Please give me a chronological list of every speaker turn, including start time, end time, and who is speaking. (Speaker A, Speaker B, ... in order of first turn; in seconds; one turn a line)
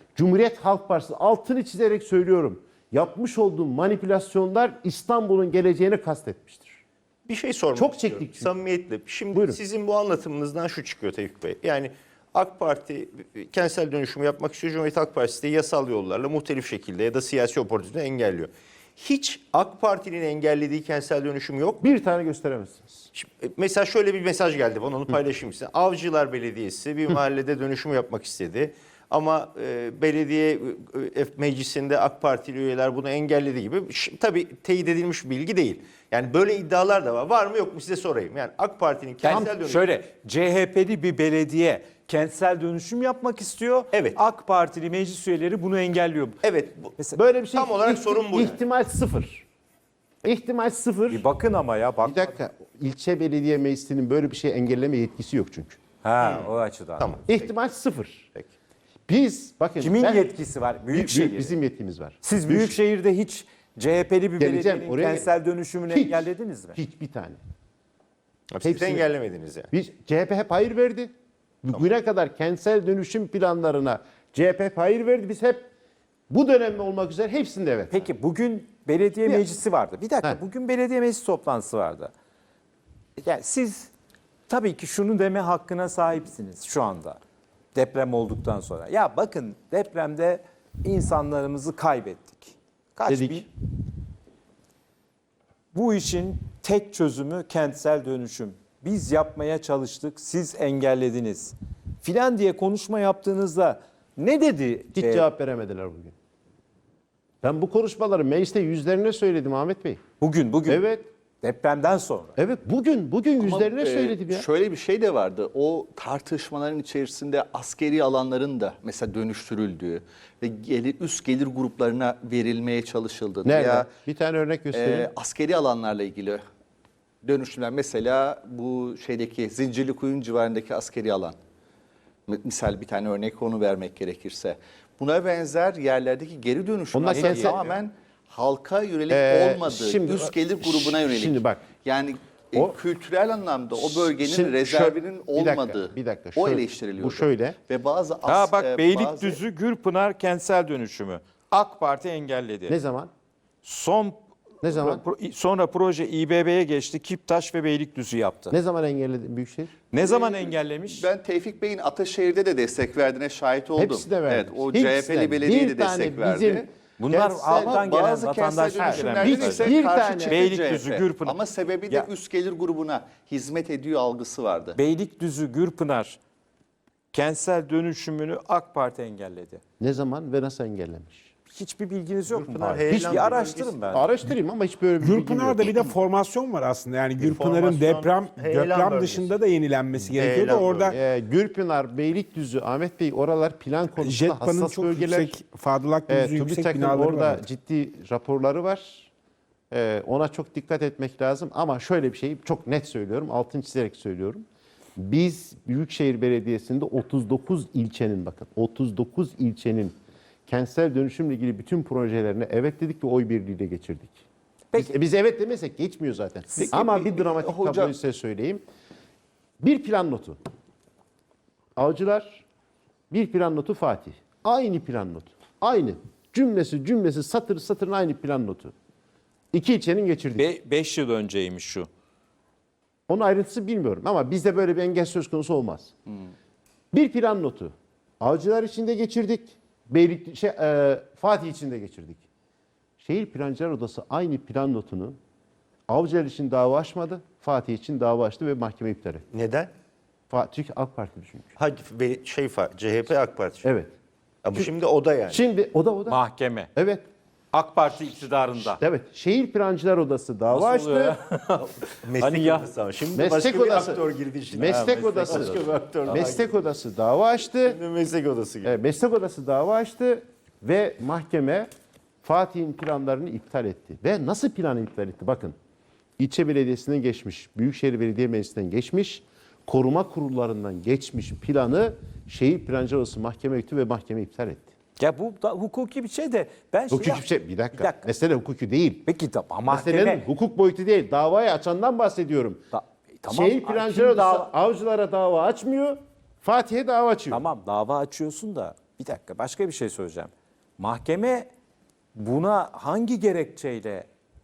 Speaker A: 0.1-6.8
Speaker B: 7.2-21.8
Speaker A: 7.7-8.5
Speaker A: 9.3-9.6
Speaker A: 21.8-23.1
Speaker B: 23.1-39.9
Speaker C: 39.2-46.4
Speaker B: 43.9-44.2
Speaker B: 46.4-47.0
Speaker A: 47.1-49.4
Speaker B: 47.5-48.6
Speaker A: 50.2-51.2
Speaker C: 51.1-52.3
Speaker A: 52.0-55.8
Speaker C: 56.0-57.2
Speaker B: 56.2-57.5
Speaker A: 57.2-58.3
Speaker A: 59.1-60.3
Speaker C: 59.8-61.5
Speaker A: 60.9-62.8
Speaker C: 62.2-66.8
Speaker A: 64.4-65.3
Speaker A: 65.9-67.4
Speaker B: 68.5-69.7
Speaker A: 68.6-69.1
Speaker A: 69.7-71.1
Speaker A: 71.6-75.7
Speaker A: 76.3-78.1
Speaker C: 77.9-82.1
Speaker C: 83.2-83.9
Speaker C: 84.5-87.2
Speaker C: 87.7-93.5
Speaker A: 93.1-93.4
Speaker C: 95.7-105.2
Speaker A: 104.9-106.1
Speaker A: 107.4-110.0
Speaker C: 110.2-110.9
Speaker A: 110.7-111.0
Speaker C: 111.4-112.3
Speaker A: 112.4-114.5
Speaker D: 113.4-123.9
Speaker A: 123.4-125.1
Speaker D: 124.7-126.4
Speaker D: 127.2-131.3
Speaker D: 132.3-149.4
Speaker A: 136.9-137.7
Speaker C: 137.1-137.5
Speaker A: 139.1-141.7
Speaker A: 143.8-147.6
Speaker C: 148.2-152.8
Speaker A: 152.7-153.1
Speaker C: 153.6-158.6
Speaker A: 154.6-155.0
Speaker A: 158.5-159.8
Speaker C: 159.9-161.1
Speaker D: 159.9-166.7
Speaker A: 163.7-167.8
Speaker C: 167.0-172.1
Speaker D: 167.5-174.8
Speaker A: 168.7-170.4
Speaker C: 174.7-176.2
Speaker C: 177.1-179.6
Speaker A: 179.8-181.3
Speaker C: 181.4-184.0
Speaker B: 182.2-184.0
Speaker A: 183.9-185.7
Speaker E: 185.0-191.0
Speaker B: 187.2-189.4
Speaker B: 190.0-191.0
Speaker A: 190.9-195.3
Speaker E: 194.0-197.4
Speaker A: 196.1-199.1
Speaker A: 199.7-204.4
Speaker A: 205.0-209.9
Speaker A: 210.5-214.2
Speaker A: 214.7-218.6
Speaker D: 216.5-217.9
Speaker A: 219.6-220.4
Speaker A: 221.8-222.4
Speaker A: 223.1-228.7
Speaker A: 229.5-230.5
Speaker C: 230.4-231.9
Speaker A: 233.1-235.9
Speaker A: 236.9-242.2
Speaker A: 243.0-245.2
Speaker A: 245.9-249.2
Speaker B: 249.3-249.7
Speaker A: 250.3-251.5
Speaker B: 251.6-253.7
Speaker A: 253.6-253.9
Speaker B: 254.4-255.4
Speaker A: 255.3-256.2
Speaker C: 256.1-256.7
Speaker A: 256.7-257.0
Speaker C: 257.5-258.8
Speaker A: 258.6-261.1
Speaker C: 260.5-262.7
Speaker B: 261.6-266.6
Speaker A: 263.1-267.8
Speaker C: 264.6-266.2
Speaker B: 267.6-268.8
Speaker A: 268.6-271.7
Speaker A: 272.2-275.5
Speaker A: 276.2-284.7
Speaker C: 285.0-288.1
Speaker A: 286.9-289.0
Speaker C: 289.1-290.2
Speaker A: 289.6-292.6
Speaker C: 292.7-294.5
Speaker A: 293.3-297.4
Speaker C: 297.3-301.5
Speaker C: 302.1-304.1